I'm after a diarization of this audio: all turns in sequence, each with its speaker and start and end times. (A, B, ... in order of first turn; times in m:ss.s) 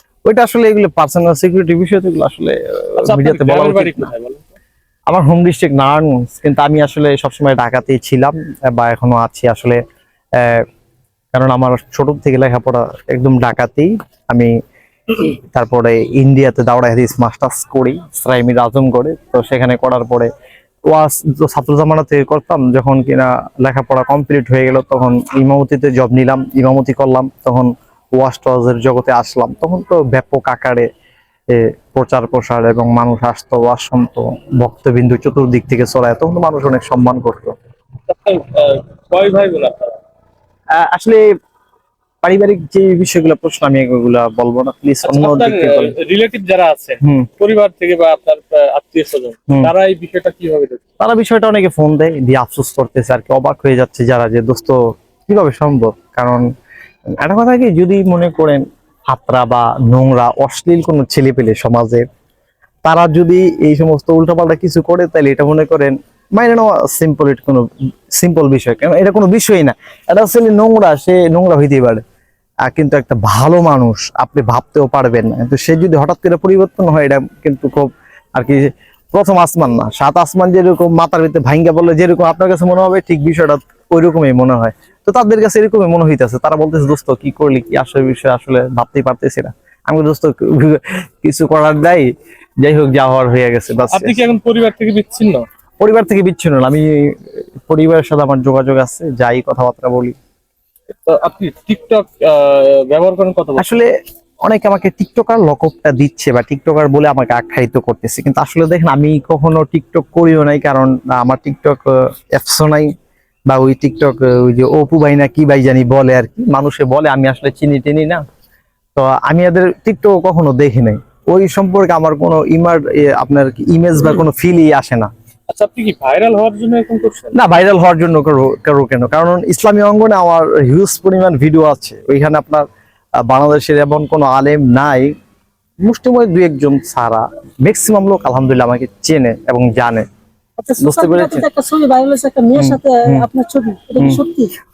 0:00.2-0:04.1 A
0:03.0-0:04.5 B
0:05.1-0:09.8 A
0:10.4-0:10.6 A
0:11.3-0:14.5 A
0:15.2-0:20.3 A
0:20.9-0:30.9 A
0:31.5-0:37.5 A
0:38.1-0:40.0 B
0:40.7-0:41.2 A
0:42.2-0:45.9 A
0:45.0-0:50.8 B
0:47.0-0:47.3 A
0:51.0-0:56.4 A
0:57.2-1:02.0 A
1:02.8-1:12.0 A
1:12.6-1:32.1 A
1:32.6-1:34.2 A
1:33.9-1:35.4 B
1:35.8-1:37.1 A
1:37.7-1:40.2 A
1:41.0-1:43.8 B
1:43.6-1:43.9 A
1:44.4-1:52.9 A
1:53.5-1:58.2 A
1:58.9-2:05.1 A
2:05.5-2:07.3 B
2:07.3-2:12.6 A
2:13.2-2:15.1 A
2:15.8-2:20.0 A
2:20.6-2:24.5 C
2:20.8-2:21.5 A
2:22.6-2:23.3 A